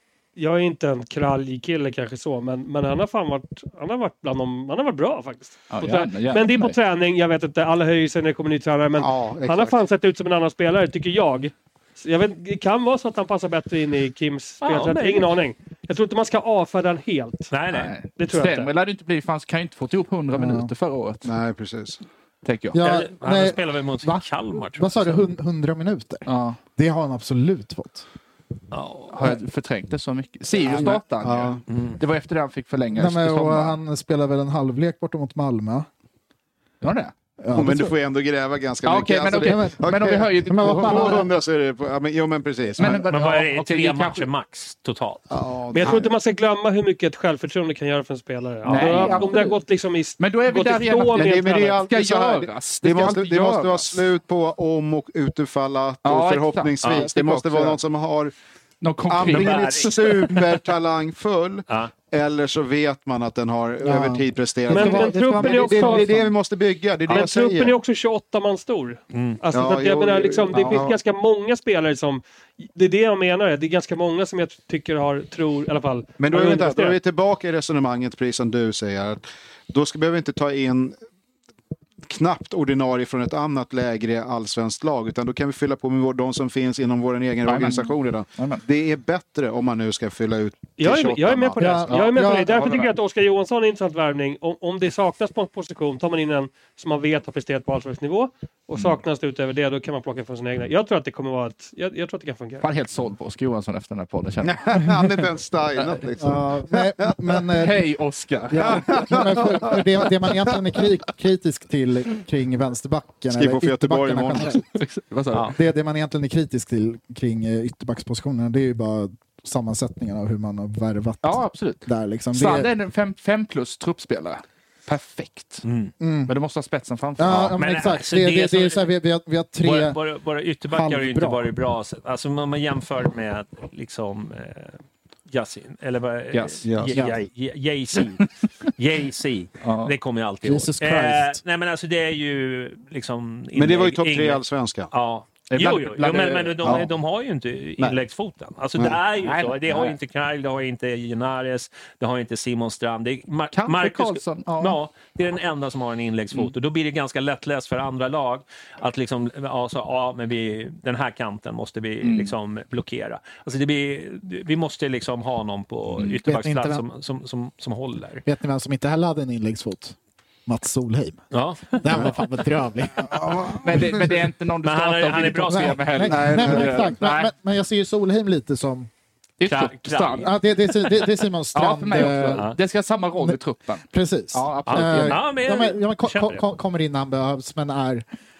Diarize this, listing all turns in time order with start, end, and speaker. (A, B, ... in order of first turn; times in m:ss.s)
0:00.4-0:17.5 A
0:05.7-0:06.8 B
0:09.0-0:09.8 C
0:14.6-0:15.3 D
0:17.5-0:17.9 D
0:17.7-0:21.3 B
0:18.2-0:18.7 A
0:20.3-0:20.7 E
0:21.2-0:22.0 C
0:22.4-0:22.8 B
0:22.7-0:24.2 E
0:22.8-0:25.2 D
0:24.8-0:28.0 E
0:26.2-0:26.6 B
0:28.7-0:29.1 D
0:29.1-0:33.8 B
0:30.7-0:31.0 E
0:30.8-0:31.6 C
0:31.7-0:32.0 D
0:33.0-0:35.9 E
0:36.8-0:37.1 B
0:37.4-0:37.9 E
0:37.5-0:43.0 C
0:38.8-0:41.2 B
0:39.4-0:41.3 E
0:42.8-0:44.3 B
0:42.9-0:45.2 D
0:45.3-0:46.1 C
0:45.7-0:51.8 A
0:48.6-0:49.6 B
0:48.7-0:49.4 C
0:50.2-0:54.0 B
0:51.2-0:58.3 C
0:56.0-0:57.7 B
0:56.8-0:57.1 D
0:57.2-0:57.7 E
0:58.8-1:00.0 B
0:59.1-1:07.7 C
0:59.2-0:59.9 D
1:03.8-1:06.3 E
1:04.7-1:06.1 A
1:07.1-1:17.0 A
1:09.1-1:09.4 D
1:09.5-1:11.0 C
1:16.2-1:20.9 C
1:22.0-1:32.9 C
1:27.4-1:28.6 B
1:30.8-1:42.7 A
1:31.6-1:32.7 E
1:42.6-1:45.1 B
1:44.4-1:47.1 C
1:45.8-1:46.0 B
1:46.2-1:47.9 E
1:47.6-1:49.0 B
1:48.5-1:54.6 E
1:48.6-1:49.8 C
1:53.3-1:54.6 C
1:54.7-1:55.5 B
1:55.5-2:02.7 E
2:01.2-2:05.6 B
2:05.6-2:05.9 D
2:06.0-2:06.3 E
2:06.3-2:07.5 B
2:07.2-2:10.0 E
2:07.6-2:08.8 D
2:09.6-2:14.8 D
2:10.7-2:11.5 E
2:15.3-2:48.2 D
2:16.3-2:16.6 B
2:16.6-2:16.9 C
2:19.6-2:19.9 B
2:20.4-2:21.4 E
2:23.5-2:24.9 C
2:25.5-2:26.8 B
2:29.2-2:30.0 B
2:33.5-2:34.8 B
2:42.0-2:42.3 B
2:46.2-2:46.8 E
2:48.2-2:53.4 E
2:51.3-2:51.8 D
2:53.1-2:54.0 C
2:53.5-2:57.3 B
2:54.6-2:55.9 D
2:55.5-2:58.9 E
2:56.0-2:56.9 C
2:59.4-3:00.3 B
2:59.5-3:00.3 D
3:00.2-3:02.4 E
3:01.5-3:05.2 B
3:03.2-3:08.0 E
3:04.7-3:06.4 D